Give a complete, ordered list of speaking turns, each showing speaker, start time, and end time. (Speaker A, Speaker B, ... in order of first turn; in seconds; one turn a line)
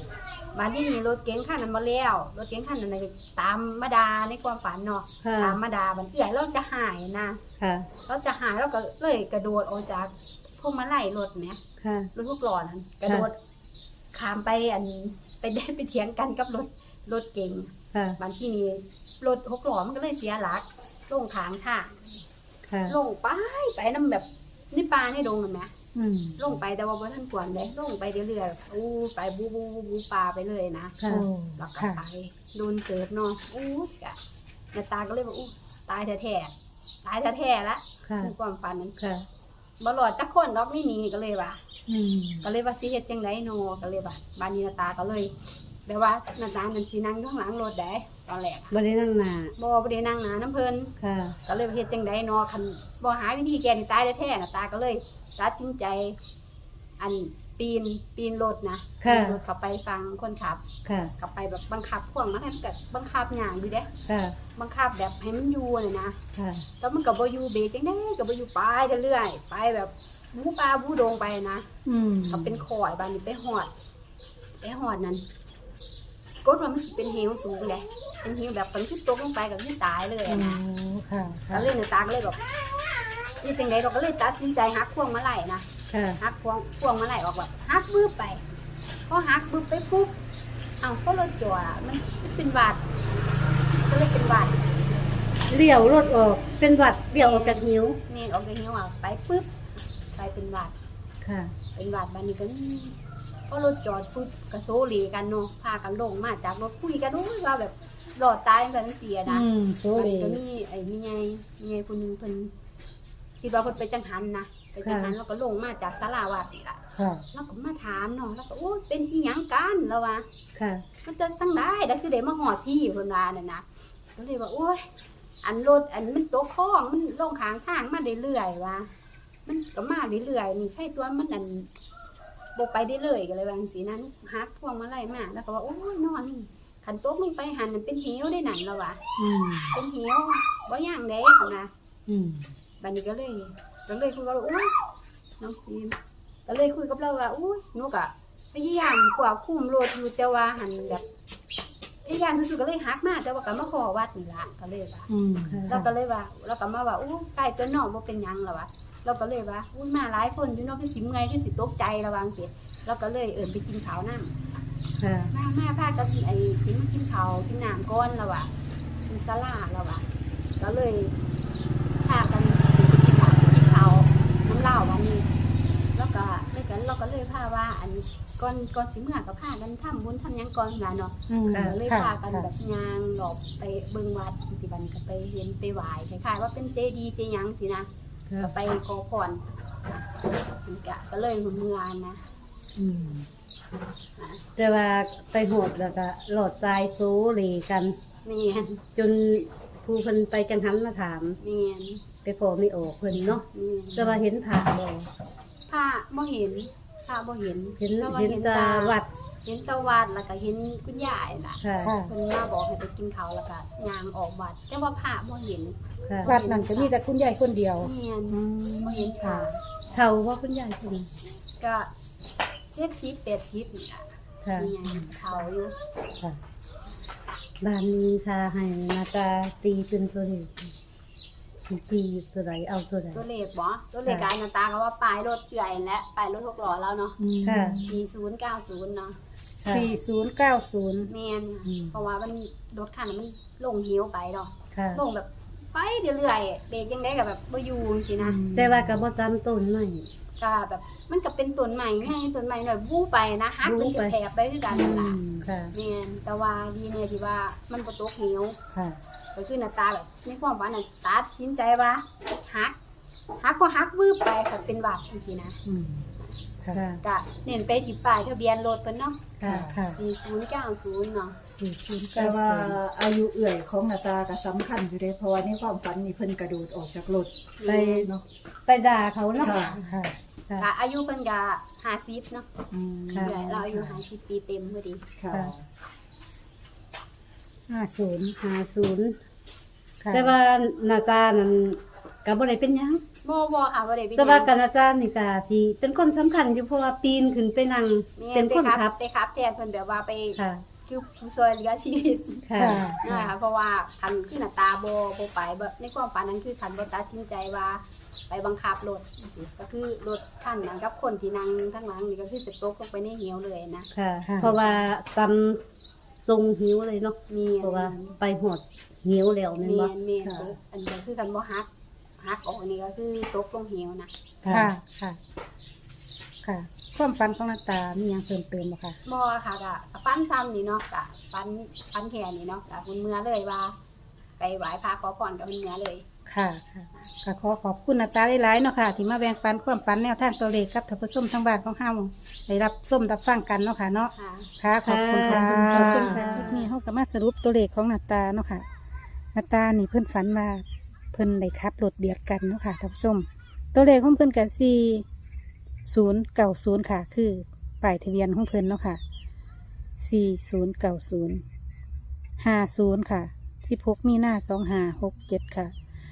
Speaker A: 0.5-7.4
Speaker B: 5.2-5.6
Speaker B: 7.6-7.9
Speaker A: 8.0-11.6
Speaker B: 11.8-12.1
Speaker A: 12.1-13.3
Speaker A: 14.1-22.2
Speaker B: 17.9-18.2
Speaker B: 22.7-22.9
Speaker A: 22.9-25.7
Speaker C: 25.9-26.4
Speaker A: 26.4-31.0
Speaker B: 31.0-31.3
Speaker C: 31.1-32.0
Speaker A: 31.6-34.2
Speaker A: 34.7-36.5
Speaker A: 37.0-39.0
Speaker B: 38.0-38.3
Speaker B: 39.0-39.2
Speaker A: 39.8-41.6
Speaker B: 41.9-42.4
Speaker A: 42.4-45.3
Speaker A: 45.9-48.8
Speaker B: 48.7-49.5
Speaker A: 49.6-50.9
Speaker B: 51.0-51.4
Speaker A: 51.5-56.2
Speaker A: 57.0-60.6
Speaker B: 59.0-59.4
Speaker B: 60.8-61.1
Speaker A: 61.2-63.9
Speaker B: 64.0-64.4
Speaker A: 64.6-66.2
Speaker B: 66.3-66.7
Speaker A: 66.8-71.7
Speaker C: 71.8-72.6
Speaker A: 72.3-73.7
Speaker A: 74.6-75.2
Speaker A: 76.4-80.6
Speaker C: 80.3-81.7
Speaker A: 81.5-82.5
Speaker A: 83.4-85.7
Speaker B: 85.9-86.2
Speaker A: 86.2-88.4
Speaker A: 89.1-90.1
Speaker A: 90.8-93.0
Speaker A: 93.8-94.6
Speaker B: 95.5-98.0
Speaker A: 97.2-99.5
Speaker A: 100.1-100.7
Speaker B: 101.2-101.5
Speaker A: 101.7-103.0
Speaker A: 103.5-112.5
Speaker C: 109.3-110.4
Speaker A: 113.4-116.8
Speaker B: 114.8-115.1
Speaker C: 116.9-117.2
Speaker A: 117.3-120.2
Speaker B: 120.5-120.8
Speaker A: 121.0-124.9
Speaker A: 125.4-128.9
Speaker A: 129.4-131.7
Speaker A: 132.6-139.0
Speaker D: 139.2-139.7
Speaker A: 139.7-141.7
Speaker C: 142.1-142.4
Speaker A: 142.8-144.7
Speaker A: 145.4-151.0
Speaker A: 152.0-155.1
Speaker C: 155.1-155.8
Speaker B: 155.5-155.8
Speaker A: 155.7-164.3
Speaker B: 165.0-165.3
Speaker A: 165.3-168.5
Speaker A: 169.1-170.1
Speaker A: 170.6-171.1
Speaker A: 172.0-175.3
Speaker A: 175.9-187.9
Speaker C: 181.3-182.5
Speaker B: 181.5-181.8
Speaker A: 188.4-190.0
Speaker A: 190.6-192.2
Speaker A: 194.2-194.4
Speaker B: 194.6-198.0
Speaker A: 198.2-198.8
Speaker B: 198.9-201.4
Speaker A: 201.4-202.0
Speaker B: 202.2-205.1
Speaker A: 203.5-204.2
Speaker A: 205.7-216.9
Speaker B: 207.8-209.1
Speaker B: 211.6-211.9
Speaker C: 211.8-212.1
Speaker C: 216.2-219.5
Speaker A: 217.8-219.6
Speaker B: 219.9-221.1
Speaker A: 221.6-221.9
Speaker A: 222.7-225.7
Speaker B: 224.4-224.7
Speaker C: 224.8-225.1
Speaker B: 227.6-230.7
Speaker B: 231.7-233.2
Speaker A: 233.1-237.2
Speaker C: 237.2-238.0
Speaker B: 237.4-237.8
Speaker A: 237.8-239.2
Speaker C: 239.6-241.1
Speaker B: 239.6-239.9
Speaker A: 241.1-248.4
Speaker C: 241.7-241.9
Speaker B: 244.7-245.0
Speaker C: 248.2-248.9
Speaker B: 248.5-250.1
Speaker A: 250.4-255.2
Speaker B: 253.6-254.1
Speaker C: 254.7-255.5
Speaker B: 255.4-255.7
Speaker A: 255.7-258.6
Speaker C: 258.7-259.0
Speaker A: 259.3-262.7
Speaker A: 263.4-265.6
Speaker C: 265.6-266.1
Speaker B: 266.7-267.0
Speaker A: 267.0-271.4
Speaker B: 269.4-269.7
Speaker C: 269.4-270.0
Speaker D: 269.4-269.7
Speaker C: 271.5-272.8
Speaker D: 272.1-277.3
Speaker A: 277.6-278.1
Speaker B: 277.6-278.1
Speaker B: 278.7-279.6
Speaker D: 279.4-279.8
Speaker C: 279.6-280.2
Speaker A: 280.6-282.5
Speaker D: 282.7-283.3
Speaker A: 283.2-285.0
Speaker C: 283.4-283.8
Speaker D: 285.2-285.6
Speaker C: 287.7-288.4
Speaker B: 288.4-289.2
Speaker C: 290.0-290.3
Speaker B: 290.1-293.0
Speaker A: 293.2-294.5
Speaker B: 294.1-298.9
Speaker A: 298.2-313.9
Speaker B: 300.4-300.6
Speaker B: 302.4-303.3
Speaker C: 302.6-303.0
Speaker B: 313.9-315.6
Speaker C: 314.2-314.5
Speaker B: 316.2-319.9
Speaker A: 317.3-318.1
Speaker A: 319.6-324.1
Speaker C: 320.2-320.5
Speaker B: 324.4-324.7
Speaker C: 324.5-325.2
Speaker C: 326.4-329.0
Speaker A: 329.0-333.8
Speaker A: 334.4-336.0
Speaker C: 336.2-348.6
Speaker A: 344.1-344.5
Speaker B: 344.8-346.7
Speaker C: 349.3-355.0
Speaker C: 355.9-359.0
Speaker C: 360.0-361.4
Speaker C: 362.4-365.7